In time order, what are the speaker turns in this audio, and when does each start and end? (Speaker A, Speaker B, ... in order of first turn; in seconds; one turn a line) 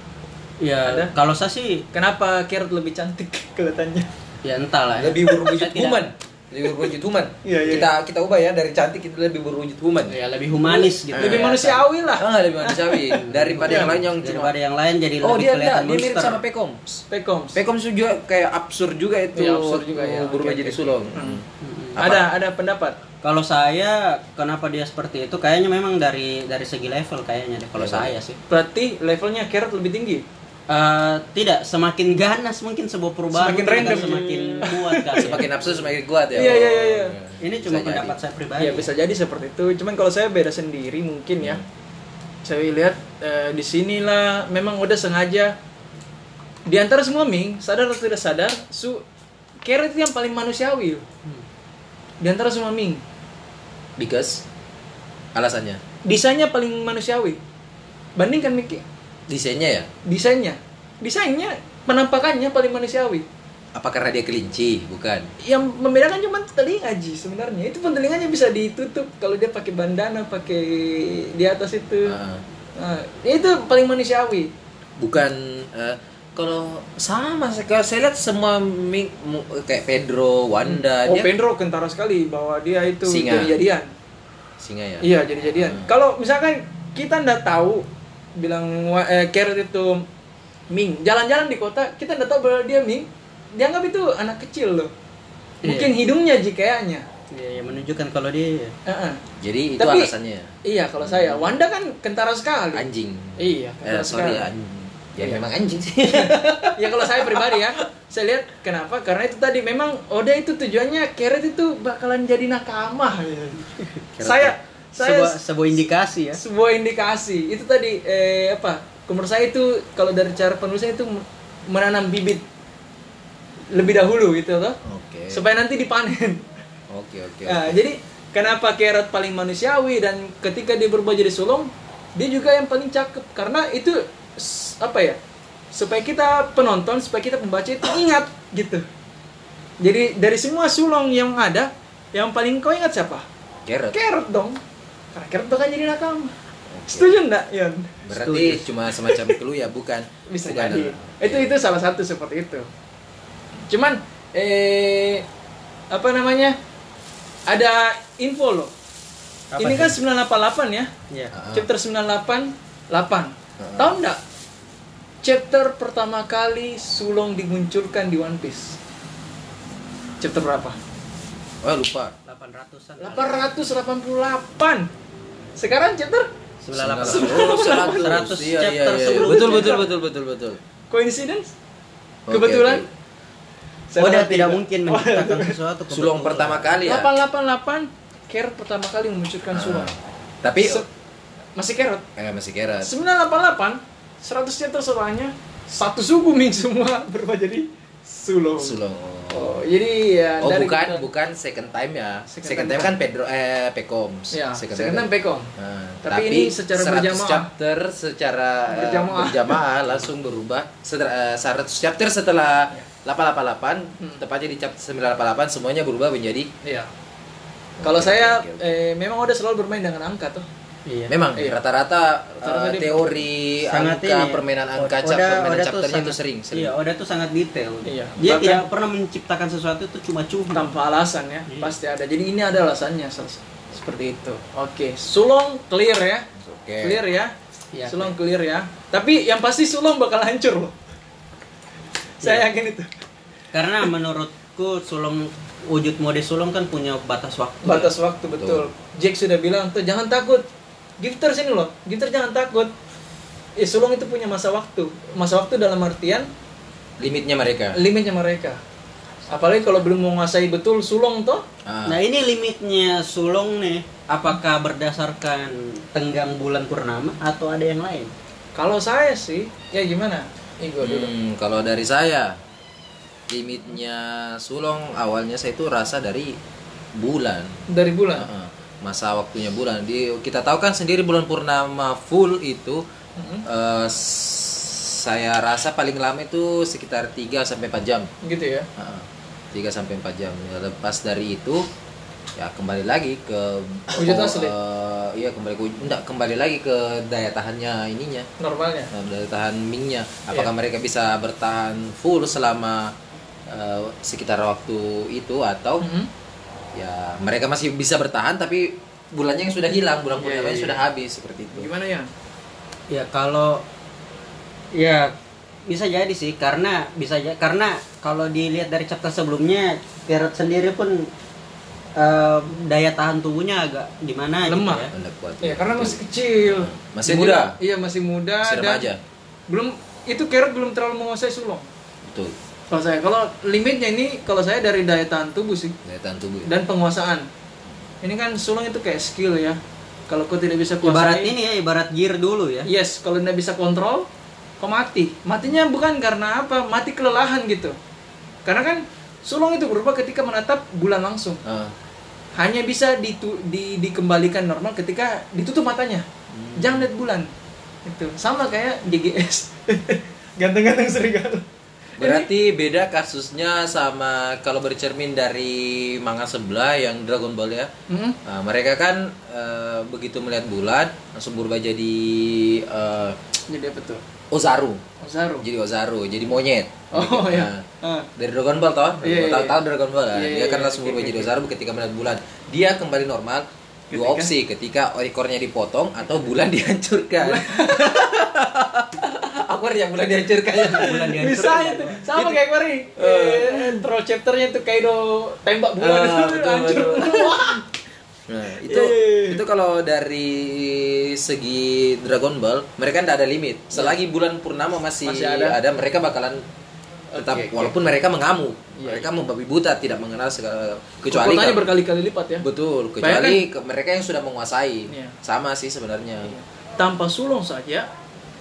Speaker A: 0.6-1.9
Speaker B: 0.8-1.1
Speaker B: 1.9-4.1
Speaker A: 4.4-6.1
Speaker C: 5.0-10.2
Speaker B: 5.3-6.1
Speaker B: 7.4-7.9
Speaker A: 10.1-11.8
Speaker B: 10.4-13.9
Speaker C: 11.1-11.6
Speaker C: 12.1-14.5
Speaker A: 13.2-16.4
Speaker C: 15.2-22.3
Speaker B: 17.1-17.6
Speaker B: 19.4-21.4
Speaker A: 21.6-22.0
Speaker B: 22.0-23.0
Speaker A: 23.2-28.4
Speaker C: 27.8-28.2
Speaker B: 28.5-30.2
Speaker A: 30.7-35.6
Speaker B: 33.3-35.3
Speaker C: 35.2-38.2
Speaker B: 36.3-37.1
Speaker A: 37.4-38.9
Speaker B: 38.6-41.6
Speaker B: 42.4-45.5
Speaker B: 46.7-49.0
Speaker B: 49.6-51.0
Speaker B: 52.2-53.0
Speaker C: 54.0-54.4
Speaker C: 55.4-55.8
Speaker B: 56.0-57.4
Speaker B: 58.2-58.8
Speaker C: 59.3-59.9
Speaker B: 60.1-63.2
Speaker C: 63.8-65.3
Speaker B: 65.4-72.2
Speaker C: 72.1-72.4
Speaker B: 72.8-74.5
Speaker C: 75.0-81.3
Speaker B: 80.6-83.9
Speaker C: 83.0-83.5
Speaker C: 84.6-85.9
Speaker B: 85.0-90.1
Speaker B: 90.7-94.9
Speaker A: 95.6-95.9
Speaker B: 95.6-97.1
Speaker A: 97.3-98.8
Speaker B: 98.9-99.2
Speaker C: 99.4-101.5
Speaker B: 99.8-100.1
Speaker B: 100.6-102.8
Speaker C: 102.7-106.5
Speaker B: 103.4-104.5
Speaker B: 106.1-113.7
Speaker A: 106.1-106.8
Speaker C: 114.1-114.6
Speaker B: 114.2-115.4
Speaker A: 115.0-116.4
Speaker B: 116.3-122.5
Speaker B: 123.7-124.8
Speaker C: 124.8-125.4
Speaker B: 125.3-126.5
Speaker C: 126.9-127.8
Speaker B: 127.5-135.2
Speaker B: 135.7-138.8
Speaker B: 139.8-143.2
Speaker C: 143.7-144.0
Speaker B: 143.9-144.6
Speaker B: 145.1-146.3
Speaker C: 146.7-147.1
Speaker B: 146.9-148.0
Speaker C: 148.1-151.6
Speaker A: 148.1-148.7
Speaker B: 149.0-149.3
Speaker B: 150.3-152.7
Speaker B: 153.7-155.2
Speaker B: 155.9-156.6
Speaker B: 157.5-158.7
Speaker A: 159.5-159.9
Speaker B: 159.6-160.9
Speaker C: 161.3-161.7
Speaker B: 161.5-164.2
Speaker C: 163.6-163.9
Speaker B: 165.2-168.8
Speaker B: 170.2-170.8
Speaker C: 171.6-172.2
Speaker A: 172.3-173.4
Speaker B: 173.0-174.9
Speaker B: 175.6-176.3
Speaker A: 176.6-179.8
Speaker C: 176.7-180.6
Speaker B: 177.1-178.1
Speaker B: 179.2-179.9
Speaker B: 180.9-181.5
Speaker C: 182.3-182.9
Speaker B: 182.3-182.8
Speaker B: 183.9-185.6
Speaker A: 184.0-186.8
Speaker C: 185.9-187.1
Speaker B: 186.8-189.9
Speaker C: 189.5-190.8
Speaker B: 190.6-190.9
Speaker B: 191.6-192.1
Speaker C: 192.2-192.9
Speaker B: 192.8-198.8
Speaker C: 198.6-199.6
Speaker B: 199.3-201.0
Speaker C: 200.4-216.5
Speaker B: 202.3-202.9
Speaker B: 204.3-205.5
Speaker B: 206.0-207.5
Speaker B: 208.7-209.6
Speaker B: 216.6-216.9
Speaker C: 217.8-218.6
Speaker B: 217.8-220.5
Speaker A: 220.9-221.2
Speaker C: 221.1-226.7
Speaker B: 222.4-223.2
Speaker A: 223.7-230.7
Speaker B: 227.8-228.7
Speaker B: 230.5-236.3
Speaker C: 236.4-237.0
Speaker B: 236.8-240.8
Speaker A: 237.7-238.2
Speaker B: 242.2-242.9
Speaker A: 242.2-242.5
Speaker A: 243.5-247.9
Speaker B: 247.6-250.4
Speaker C: 248.3-248.7
Speaker B: 251.0-252.7
Speaker B: 253.6-256.3
Speaker C: 257.0-257.8
Speaker B: 257.7-258.6
Speaker B: 259.3-261.4
Speaker C: 261.7-262.0
Speaker A: 261.9-268.1
Speaker B: 268.6-271.1
Speaker C: 270.8-272.4
Speaker C: 273.3-276.4
Speaker C: 276.9-277.6
Speaker B: 277.7-278.3
Speaker C: 278.2-282.8
Speaker B: 283.2-283.5
Speaker C: 283.4-288.1
Speaker B: 288.2-288.7
Speaker C: 288.8-291.7
Speaker C: 292.4-298.3
Speaker B: 293.9-294.5
Speaker B: 298.4-298.9
Speaker C: 298.9-302.9
Speaker C: 303.5-305.9
Speaker B: 305.8-306.1
Speaker C: 306.7-311.7
Speaker B: 310.2-310.8
Speaker B: 311.5-312.1
Speaker A: 312.9-313.6
Speaker A: 314.7-315.1
Speaker A: 315.7-321.1
Speaker A: 322.0-324.9
Speaker B: 324.5-324.9
Speaker C: 324.9-327.6
Speaker B: 325.4-328.9
Speaker C: 328.4-329.0
Speaker B: 329.5-331.7
Speaker C: 332.1-332.4
Speaker B: 332.7-335.8
Speaker C: 335.9-336.5
Speaker B: 336.5-337.3
Speaker B: 338.0-341.3
Speaker A: 340.8-342.7
Speaker B: 342.6-344.1
Speaker B: 344.6-347.8
Speaker B: 348.5-351.4
Speaker C: 351.4-351.7
Speaker B: 352.4-356.1
Speaker C: 356.3-356.9
Speaker B: 356.6-357.3
Speaker B: 357.9-361.4
Speaker B: 362.0-362.3
Speaker C: 362.0-367.7
Speaker B: 367.9-368.2
Speaker C: 368.2-373.2
Speaker B: 373.5-374.0
Speaker C: 374.3-374.8
Speaker B: 375.0-375.5
Speaker C: 375.4-377.6
Speaker B: 376.9-378.1
Speaker C: 378.2-391.1
Speaker B: 379.0-379.6
Speaker B: 380.1-381.3
Speaker B: 383.9-384.3
Speaker B: 387.2-388.3
Speaker A: 390.6-392.0
Speaker B: 390.7-397.7
Speaker C: 392.1-392.4
Speaker C: 393.0-393.9
Speaker C: 395.8-397.5
Speaker C: 398.3-406.4
Speaker B: 398.6-399.4
Speaker B: 405.0-405.6
Speaker B: 407.1-407.8
Speaker C: 407.2-411.7
Speaker B: 408.8-409.1
Speaker B: 411.1-412.5
Speaker C: 412.4-416.4
Speaker B: 413.0-413.4
Speaker B: 414.9-415.1
Speaker B: 416.2-417.9